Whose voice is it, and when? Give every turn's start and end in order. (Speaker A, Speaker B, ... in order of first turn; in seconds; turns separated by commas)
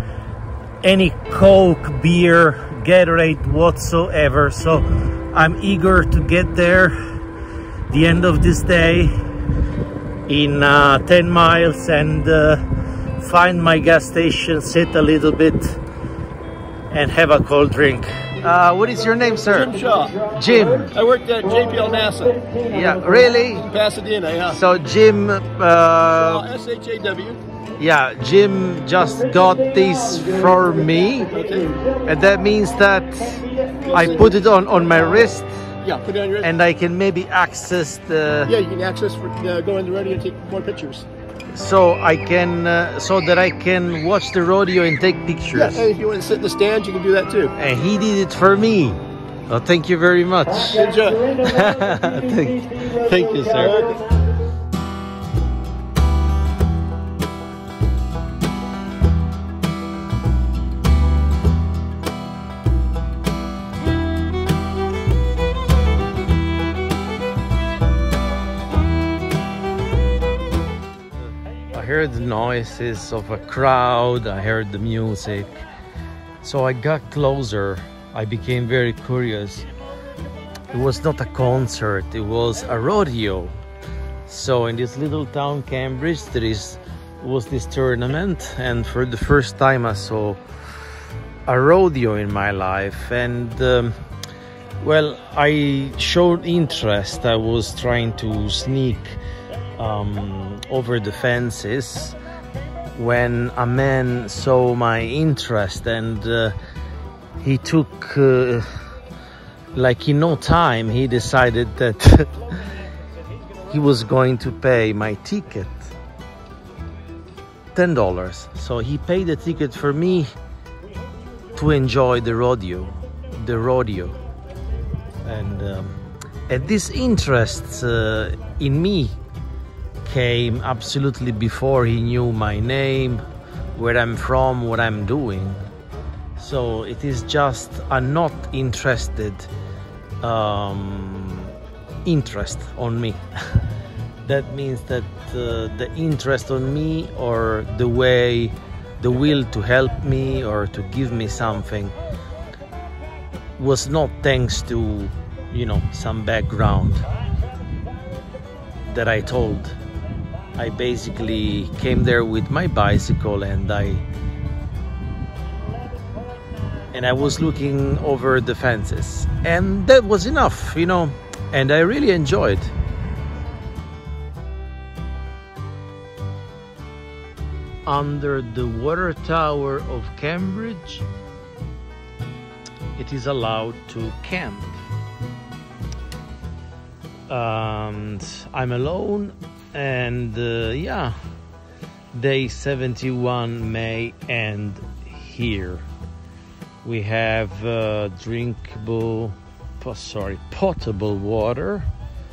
Speaker A: 0.8-7.0, Speaker A: 7.9-9.1, Speaker A: 10.3-12.6, Speaker A: 13.2-15.8, Speaker A: 16.9-20.9, Speaker B: 19.6-20.2, Speaker B: 20.9-22.5, Speaker A: 22.6-23.7, Speaker B: 23.6-24.6, Speaker A: 24.5-26.5, Speaker B: 26.1-27.4, Speaker A: 27.8-31.4, Speaker B: 31.3-31.7, Speaker A: 31.9-35.5, Speaker B: 33.8-34.2, Speaker B: 35.8-36.5, Speaker A: 36.4-38.5, Speaker B: 38.5-41.0, Speaker A: 41.5-45.9, Speaker B: 45.5-47.5, Speaker A: 47.5-54.1, Speaker B: 50.7-51.4, Speaker A: 71.7-75.6, Speaker A: 76.4-79.7, Speaker A: 80.7-83.5, Speaker A: 84.2-90.4, Speaker A: 91.5-94.0, Speaker A: 94.8-99.2, Speaker A: 99.8-102.2, Speaker A: 102.9-106.5, Speaker A: 107.4-108.7, Speaker A: 109.7-112.4, Speaker A: 113.7-115.9, Speaker A: 117.7-120.3, Speaker A: 121.5-124.1, Speaker A: 125.2-129.2, Speaker A: 130.0-133.2, Speaker A: 133.7-135.6, Speaker A: 136.4-139.5, Speaker A: 140.2-141.5, Speaker A: 142.0-143.7, Speaker A: 144.2-151.9, Speaker A: 153.6-157.1, Speaker A: 158.8-159.8, Speaker A: 160.6-164.0, Speaker A: 166.9-172.7, Speaker A: 177.8-181.1, Speaker A: 182.9-184.8, Speaker A: 187.3-191.2, Speaker A: 192.1-195.8, Speaker A: 196.8-201.9